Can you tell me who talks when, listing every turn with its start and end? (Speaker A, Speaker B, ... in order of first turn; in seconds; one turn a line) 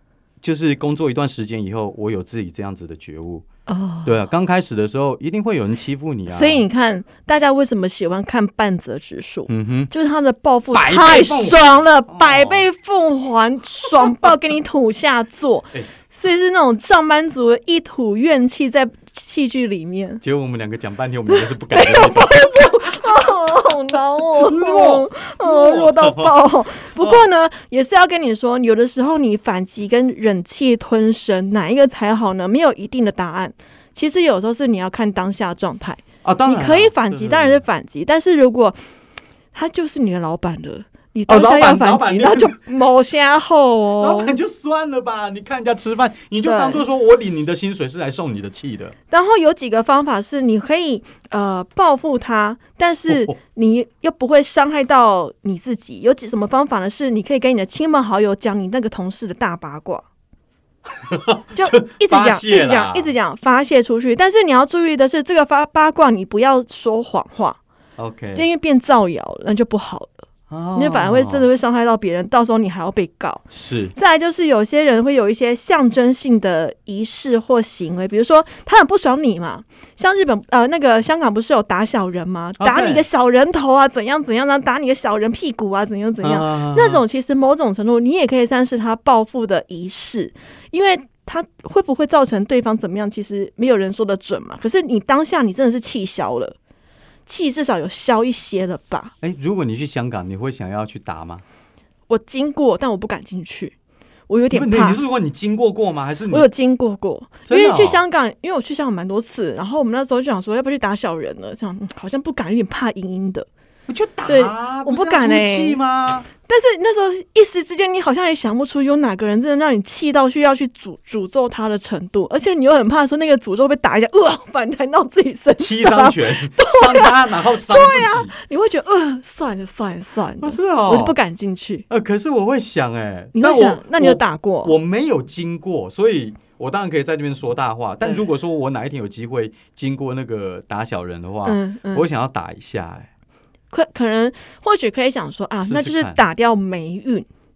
Speaker A: 0.4-3.5
Speaker B: 3.7-4.2
Speaker A: 4.0-6.6
Speaker B: 6.3-20.2
Speaker A: 9.5-9.9
Speaker A: 10.7-12.6
Speaker A: 20.2-22.5
Speaker B: 21.3-38.8
Speaker A: 24.4-26.4
Speaker A: 27.0-27.2
Speaker A: 36.2-37.6
Speaker B: 39.5-44.4
Speaker A: 41.3-42.6
Speaker A: 44.0-48.9
Speaker B: 46.4-46.8
Speaker B: 49.1-60.0
Speaker A: 53.1-53.4
Speaker A: 60.9-63.1
Speaker B: 61.5-67.6
Speaker A: 68.0-68.4
Speaker B: 68.3-73.4
Speaker A: 70.5-71.5
Speaker A: 73.5-73.9
Speaker B: 74.0-96.6
Speaker A: 82.6-83.0
Speaker A: 86.2-87.0
Speaker B: 97.3-99.1
Speaker A: 99.2-101.4
Speaker B: 102.1-103.8
Speaker B: 104.3-105.0
Speaker A: 104.5-106.5
Speaker B: 106.3-113.5
Speaker A: 107.5-108.0
Speaker A: 113.9-116.3
Speaker B: 114.3-115.8
Speaker B: 116.4-131.9
Speaker A: 125.6-128.3
Speaker A: 130.4-131.1
Speaker A: 131.9-143.1
Speaker B: 133.3-134.7
Speaker B: 141.4-142.1
Speaker B: 143.7-147.3
Speaker A: 145.6-146.2